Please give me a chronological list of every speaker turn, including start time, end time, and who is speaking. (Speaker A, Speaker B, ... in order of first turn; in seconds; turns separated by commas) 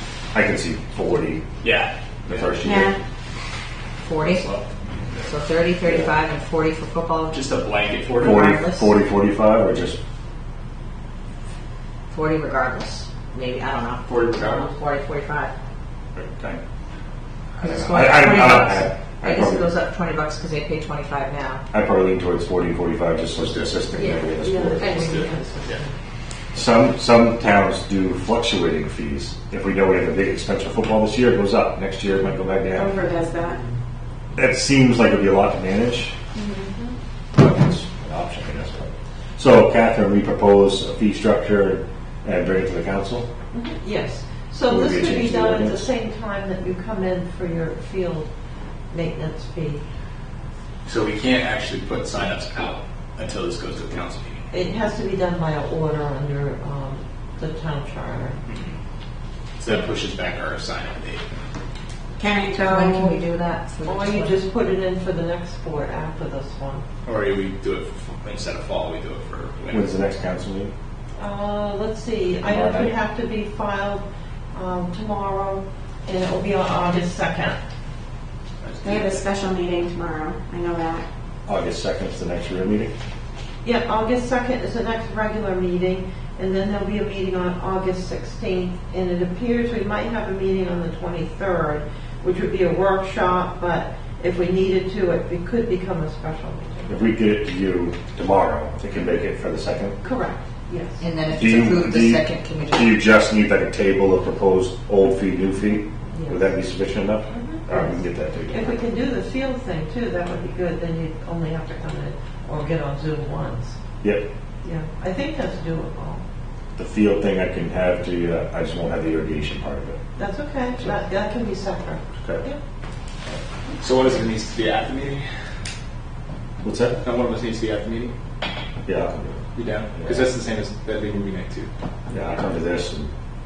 Speaker A: 0.3-1.5, Speaker B: 1.6-2.5, Speaker A: 2.2-3.0, Speaker C: 2.6-3.0, Speaker D: 4.0-4.5, Speaker B: 4.2-4.7, Speaker D: 5.2-7.4, Speaker A: 5.8-6.1, Speaker B: 7.3-8.4, Speaker A: 8.2-10.0, Speaker D: 8.2-8.9, Speaker D: 12.1-15.5, Speaker B: 14.0-14.7, Speaker A: 16.1-16.6, Speaker A: 17.6-19.7, Speaker D: 17.6-21.6, Speaker C: 18.5-18.9, Speaker A: 21.7-25.2, Speaker B: 23.3-23.8, Speaker E: 23.9-25.9, Speaker B: 24.9-25.8, Speaker A: 26.5-33.0, Speaker C: 32.7-33.6, Speaker E: 33.0-33.3, Speaker A: 34.3-36.1, Speaker A: 37.3-43.3, Speaker E: 43.5-48.3, Speaker A: 44.7-45.9, Speaker E: 48.9-49.8, Speaker B: 50.9-54.5, Speaker E: 54.5-58.4, Speaker B: 58.5-58.7, Speaker B: 59.6-61.2, Speaker C: 62.2-63.2, Speaker D: 62.5-64.4, Speaker E: 63.9-66.8, Speaker B: 67.0-69.9, Speaker A: 69.7-70.7, Speaker E: 71.2-77.6, Speaker A: 72.4-72.9, Speaker B: 78.6-79.2, Speaker C: 78.8-81.0, Speaker A: 81.5-82.9, Speaker E: 83.6-97.0, Speaker A: 96.9-100.0, Speaker E: 100.0-101.0, Speaker D: 101.0-103.0, Speaker A: 101.3-108.8, Speaker E: 106.1-106.5, Speaker E: 107.3-113.8, Speaker E: 114.6-116.2, Speaker A: 116.8-120.0, Speaker E: 120.2-122.6, Speaker A: 122.2-122.4, Speaker B: 123.8-125.2, Speaker A: 126.6-127.0, Speaker B: 127.0-128.1, Speaker A: 128.8-129.4, Speaker B: 129.5-131.7, Speaker A: 129.9-130.3, Speaker A: 132.1-133.1